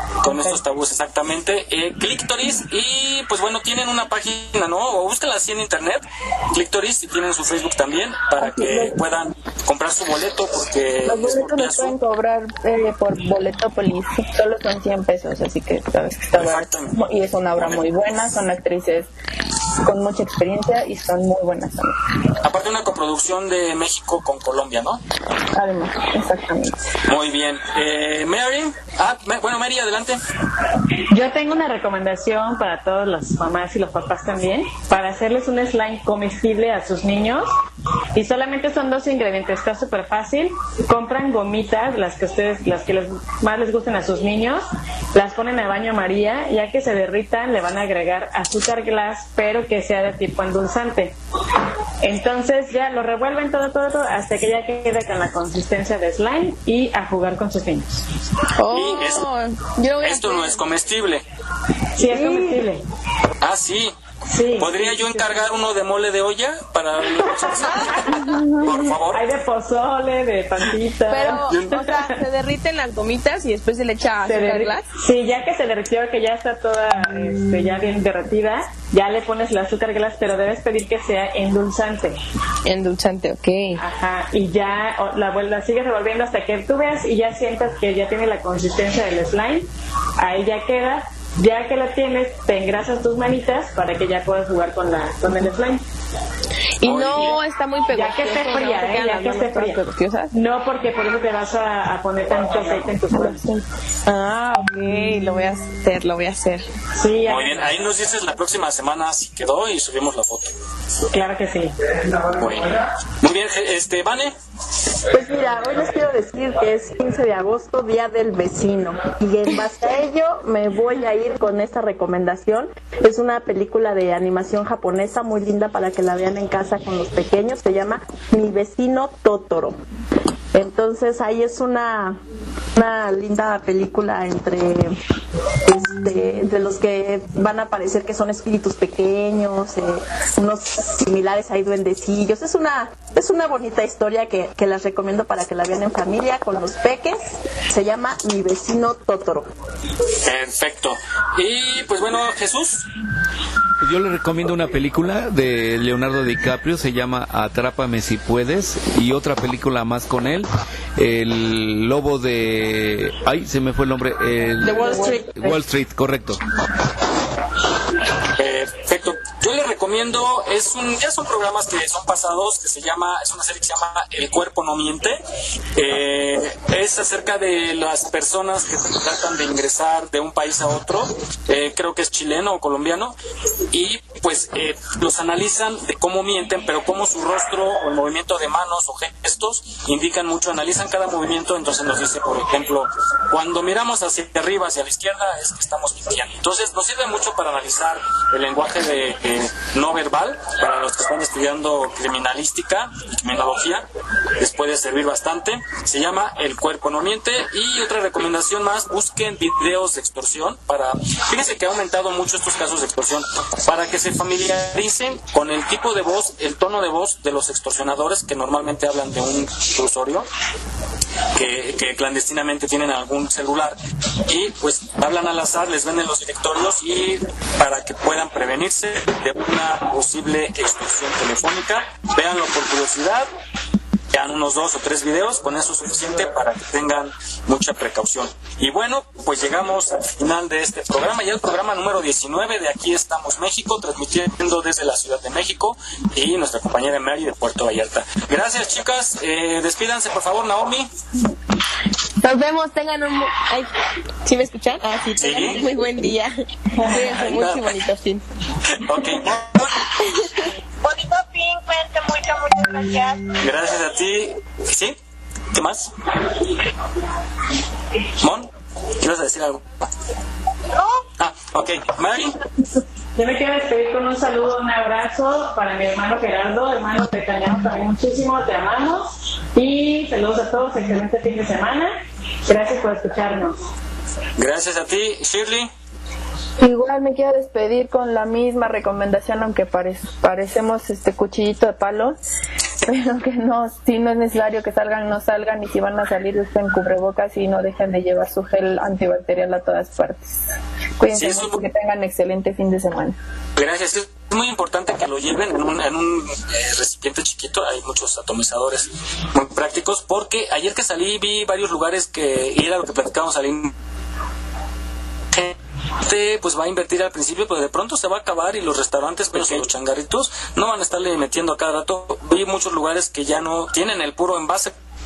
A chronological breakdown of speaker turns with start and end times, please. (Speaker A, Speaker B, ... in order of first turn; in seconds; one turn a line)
Speaker A: 0.2-12.0
Speaker B: 0.2-0.6
Speaker B: 8.4-8.9
Speaker B: 11.1-19.1
Speaker A: 16.4-17.0
Speaker A: 17.6-18.4
Speaker B: 19.8-22.1
Speaker A: 22.4-25.0
Speaker B: 25.5-26.8
Speaker A: 27.1-30.2
Speaker C: 31.1-37.5
Speaker C: 38.1-51.2
Speaker C: 52.0-57.9
Speaker D: 58.6-60.6
Speaker A: 58.7-59.3
Speaker A: 60.0-61.2
Speaker C: 62.0-62.8
Speaker E: 62.1-62.4
Speaker A: 63.4-64.0
Speaker C: 64.3-65.5
Speaker A: 64.5-69.3
Speaker C: 67.4-68.1
Speaker C: 69.1-72.1
Speaker D: 71.1-74.9
Speaker C: 74.2-82.2
Speaker D: 82.7-83.8
Speaker C: 83.8-89.7
Speaker C: 90.2-95.8
Speaker D: 96.8-100.3
Speaker A: 96.8-97.4
Speaker C: 97.9-99.8
Speaker C: 100.3-103.4
Speaker B: 103.2-103.6
Speaker D: 104.1-106.7
Speaker C: 107.0-107.7
Speaker A: 107.3-110.5
Speaker C: 111.1-111.7
Speaker A: 112.3-114.3
Speaker E: 115.1-129.8
Speaker E: 130.5-132.2
Speaker E: 132.8-135.0
Speaker E: 135.7-149.5
Speaker A: 150.2-152.8
Speaker F: 153.8-166.4
Speaker E: 164.6-165.6
Speaker A: 168.4-175.2
Speaker A: 175.8-183.2
Speaker A: 183.7-203.8
Speaker A: 204.4-220.3
Speaker A: 221.3-233.3
Speaker A: 234.1-250.9
Speaker D: 252.2-253.7
Speaker D: 254.2-258.2
Speaker A: 255.2-255.6
Speaker A: 257.2-257.7
Speaker A: 258.9-259.8
Speaker G: 260.8-263.3
Speaker A: 263.4-265.0
Speaker A: 265.5-265.9
Speaker A: 268.2-268.5
Speaker A: 269.0-269.6
Speaker G: 270.8-271.0
Speaker A: 271.2-272.4
Speaker C: 273.2-281.9
Speaker C: 282.5-283.6
Speaker A: 284.4-285.7
Speaker B: 286.6-292.2
Speaker B: 292.9-300.4
Speaker B: 301.0-303.2
Speaker A: 301.1-301.6
Speaker A: 303.6-313.7
Speaker A: 315.3-324.7